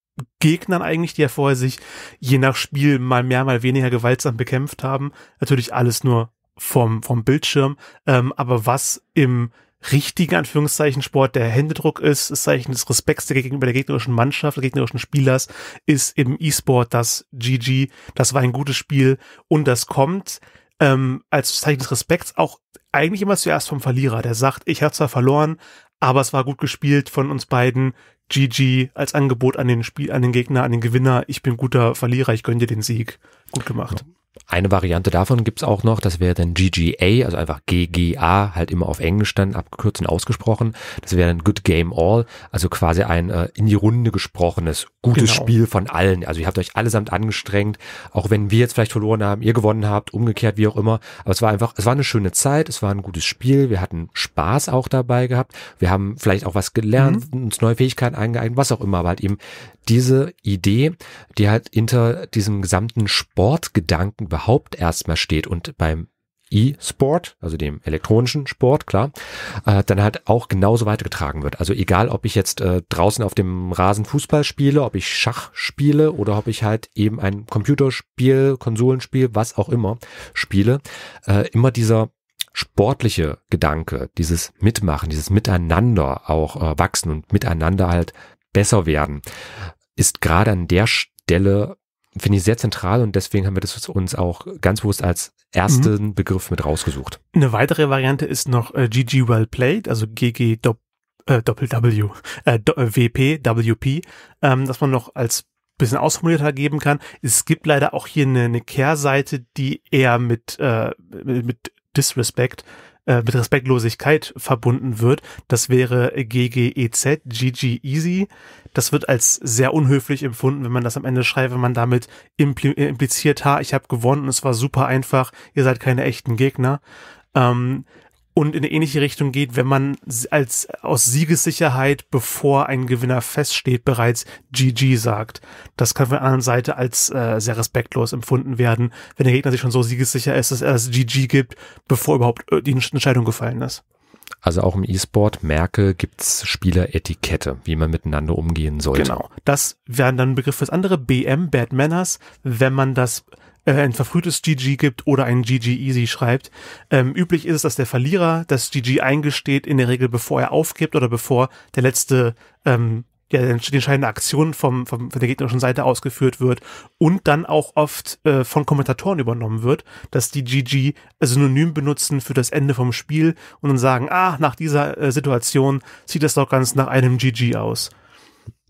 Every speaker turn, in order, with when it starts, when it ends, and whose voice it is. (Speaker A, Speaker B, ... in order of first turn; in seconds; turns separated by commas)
Speaker A: 0.4-34.0, Speaker B: 34.5-69.1, Speaker A: 45.1-45.5, Speaker A: 57.0-57.2, Speaker B: 69.7-89.2, Speaker B: 90.0-97.2, Speaker A: 95.7-95.9, Speaker A: 97.3-126.8, Speaker A: 127.3-143.8, Speaker B: 144.4-149.2, Speaker A: 148.9-177.9